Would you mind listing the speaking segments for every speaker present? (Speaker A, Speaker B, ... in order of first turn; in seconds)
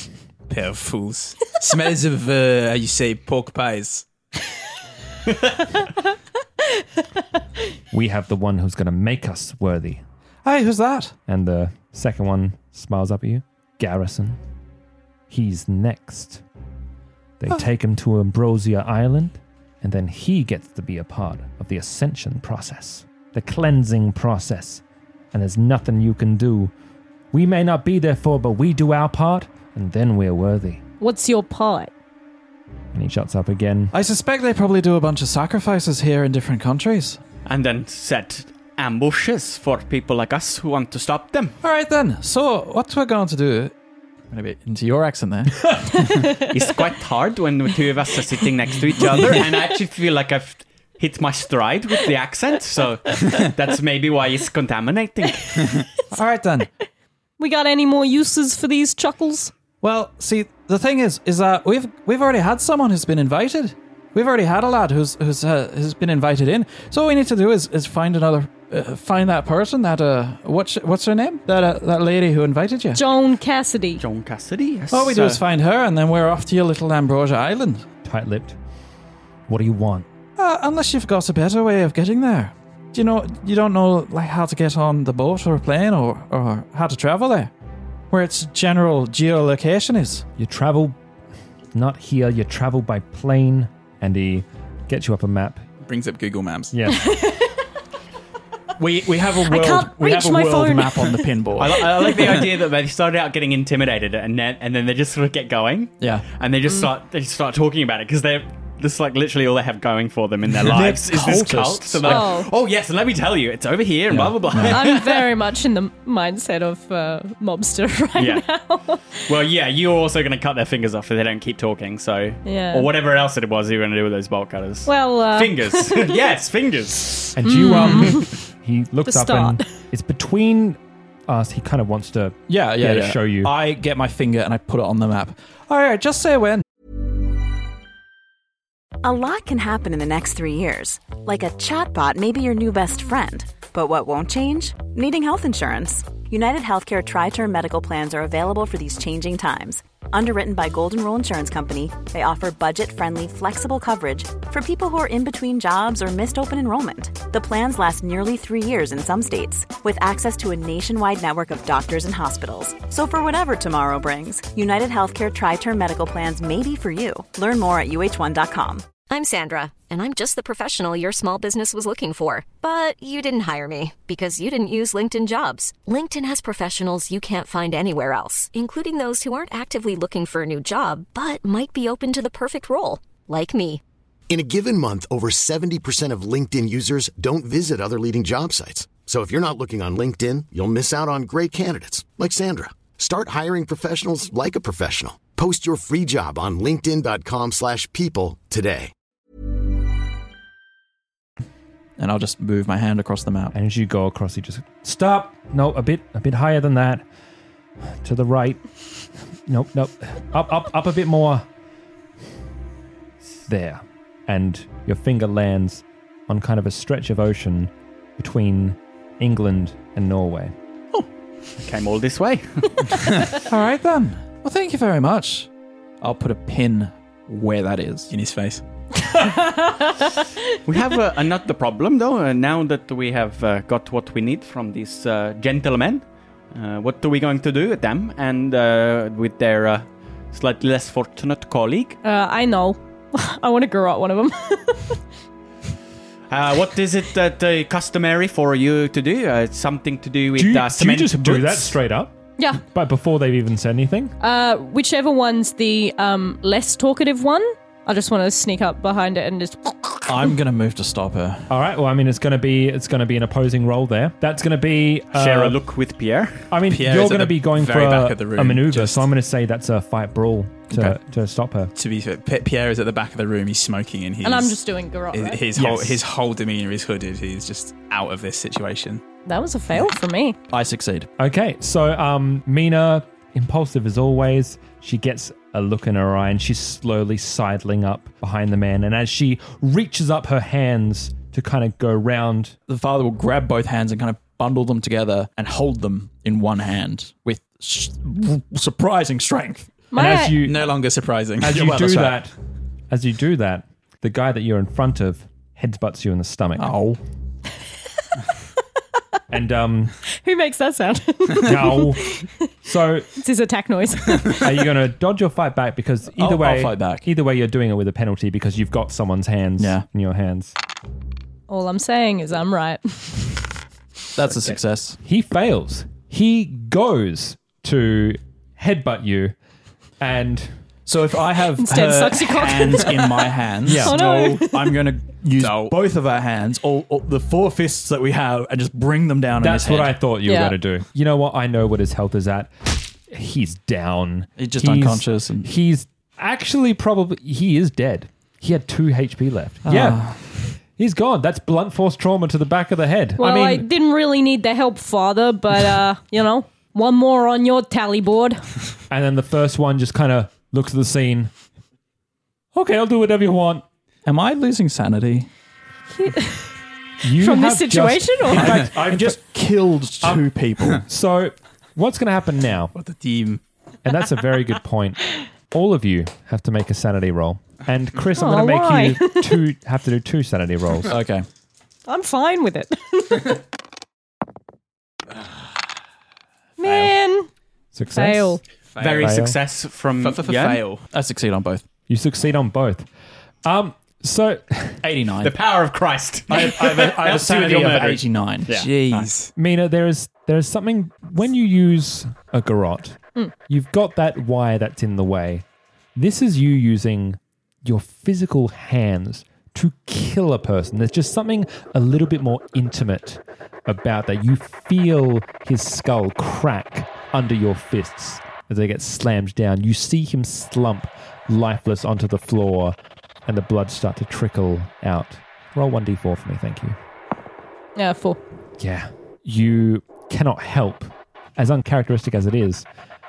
Speaker A: 0.5-4.0, 95.8-96.7, 228.1-228.6, 266.7-269.1, 271.8-274.6, 275.1-279.0, 300.4-302.1, 335.4-335.8, 372.8-373.4, 388.8-389.2, 390.0-390.9, 398.5-399.3
Speaker B: 7.9-10.0, 11.3-14.4, 15.3-16.4, 17.4-26.7, 27.3-30.8, 32.9-33.9, 78.0-78.6, 79.5-80.1, 90.4-91.0, 91.7-95.6, 96.7-97.1, 127.3-133.5, 203.5-207.1, 208.0-208.6, 209.4-211.5, 213.5-220.5, 250.3-254.1, 261.5-265.6, 266.5-271.7, 281.2-292.6, 299.9-300.7, 301.4-302.3, 302.9-306.8, 309.3-309.9, 311.4-312.1, 312.6-313.1, 314.3-320.5, 324.5-329.4, 330.0-330.6, 333.6-334.0, 339.4-353.7, 358.9-361.3, 362.5-363.6, 367.0-369.2, 370.0-372.7, 373.8-380.9, 387.7-388.4, 389.0-389.4, 391.9-392.9, 393.4-394.8, 399.3-426.8, 428.6-432.7
Speaker C: 10.4-11.2, 33.9-37.2, 41.6-43.7, 44.3-46.2, 56.1-56.7, 59.8-73.0, 74.9-77.8, 80.4-87.5, 88.1-90.2, 98.8-102.2, 106.0-106.2, 110.5-112.3, 114.1-114.8, 132.5-136.6, 202.0-203.5, 223.4-225.5, 226.0-228.1, 260.1-261.5, 270.7-271.0, 280.5-281.1, 292.7-299.9, 306.6-307.0, 316.2-317.1, 319.6-319.8, 324.2-325.0, 330.9-340.0, 344.4-345.5, 349.6-350.5, 364.1-365.3, 368.3-370.8, 380.9-381.2, 390.9-391.6, 394.8-395.4, 396.3-398.6
Speaker D: 31.0-31.9, 57.4-59.5, 73.0-74.0, 96.9-97.6, 99.4-101.3, 112.0-112.5, 114.6-119.2, 122.5-122.9, 124.9-126.2, 127.5-128.3, 129.0-129.6, 229.1-230.1, 242.0-245.0, 252.4-252.6, 254.2-260.1, 274.2-275.4, 279.2-280.4, 299.9-300.4, 310.2-312.5, 313.2-314.4, 321.5-323.4, 331.6-334.8, 340.2-340.6, 353.2-358.5, 365.9-366.6, 367.1-368.6, 378.1-379.4, 381.9-383.4, 386.6-387.3, 387.9-388.4, 427.8-428.2
Speaker E: 37.5-41.5, 46.5-55.6, 74.0-75.4, 101.6-115.2, 118.2-118.5, 119.2-127.3, 221.6-223.0, 230.7-242.0, 246.3-251.8, 265.1-266.5, 388.8-390.7, 395.2-399.1
Speaker F: 139.0-168.9
Speaker G: 169.1-183.8
Speaker H: 184.3-198.9